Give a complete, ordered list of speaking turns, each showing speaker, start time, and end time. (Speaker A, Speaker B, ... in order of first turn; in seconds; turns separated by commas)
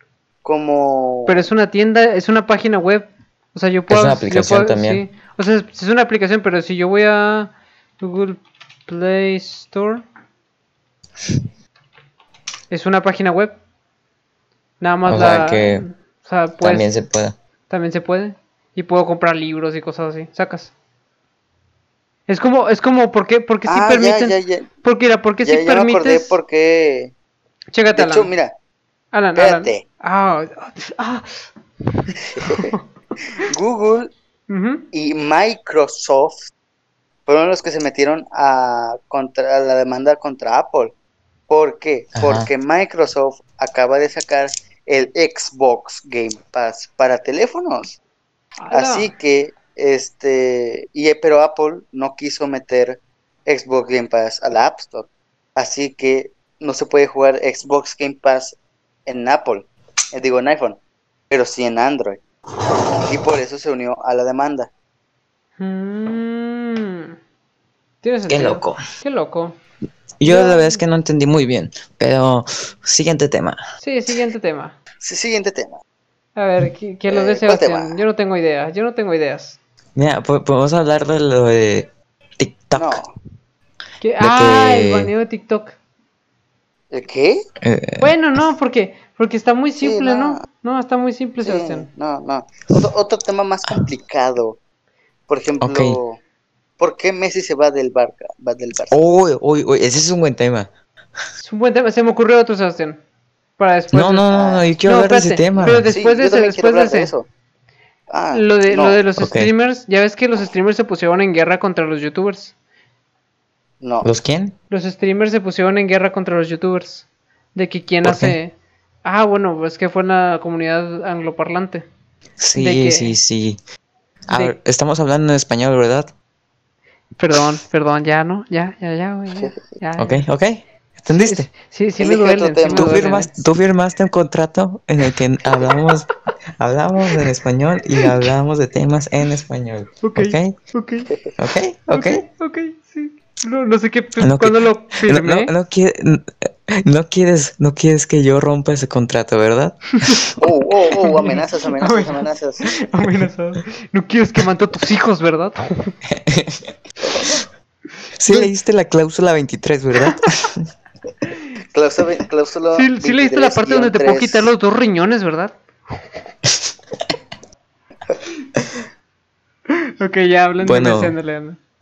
Speaker A: 0.4-1.5, Speaker B: 1.3-10.0, Speaker C: 3.9-5.0, Speaker B: 12.7-13.6, Speaker B: 14.8-16.9, Speaker C: 15.1-15.9, Speaker C: 16.6-17.4, Speaker B: 17.7-20.7, Speaker B: 22.3-26.4, Speaker A: 23.7-24.7, Speaker A: 25.4-27.1, Speaker B: 27.7-28.3, Speaker A: 27.9-28.6, Speaker B: 29.1-32.8, Speaker A: 29.4-29.8, Speaker A: 32.4-32.7, Speaker A: 33.4-34.1, Speaker B: 34.5-34.8, Speaker A: 34.9-36.5, Speaker A: 37.3-40.9, Speaker A: 41.5-48.0, Speaker C: 42.2-42.5, Speaker B: 48.6-49.1, Speaker A: 48.7-58.6, Speaker A: 59.1-60.8, Speaker A: 61.3-62.2, Speaker A: 63.0-64.7, Speaker B: 65.6-67.2, Speaker B: 68.0-69.6, Speaker C: 68.3-68.8, Speaker C: 70.2-73.6, Speaker B: 70.2-70.8, Speaker B: 73.8-74.8, Speaker A: 75.0-75.8, Speaker B: 76.4-79.6, Speaker A: 77.1-78.0, Speaker C: 80.0-83.0, Speaker A: 82.8-83.1, Speaker B: 84.0-85.8, Speaker C: 84.2-85.1, Speaker A: 86.9-87.4, Speaker C: 87.6-88.2, Speaker B: 88.0-91.9, Speaker A: 89.8-90.4, Speaker A: 91.4-94.6, Speaker A: 95.3-96.2, Speaker C: 95.6-96.0, Speaker A: 96.8-99.0, Speaker C: 98.9-100.7, Speaker B: 101.4-103.0, Speaker B: 103.6-104.3, Speaker C: 103.9-105.9, Speaker A: 104.3-104.7, Speaker B: 104.8-107.1, Speaker A: 105.9-107.3, Speaker A: 108.1-109.0, Speaker B: 108.3-112.5, Speaker C: 109.2-109.5, Speaker A: 113.8-114.1, Speaker C: 114.0-114.6, Speaker B: 114.7-121.9, Speaker C: 118.0-118.4, Speaker C: 122.4-123.6, Speaker B: 122.6-123.2, Speaker C: 124.3-126.1, Speaker B: 124.3-124.6, Speaker B: 127.2-130.3, Speaker C: 130.0-131.5, Speaker B: 131.1-133.3, Speaker A: 132.0-133.3, Speaker C: 132.7-140.6, Speaker B: 140.0-141.1, Speaker C: 141.4-142.3, Speaker B: 141.9-145.5, Speaker C: 144.2-150.2, Speaker B: 150.0-150.3, Speaker A: 150.4-152.6, Speaker B: 151.0-155.9, Speaker C: 156.1-156.7, Speaker A: 157.0-157.3, Speaker C: 158.2-160.7, Speaker A: 161.7-164.5, Speaker B: 162.8-165.6, Speaker B: 169.7-171.6, Speaker C: 170.6-171.2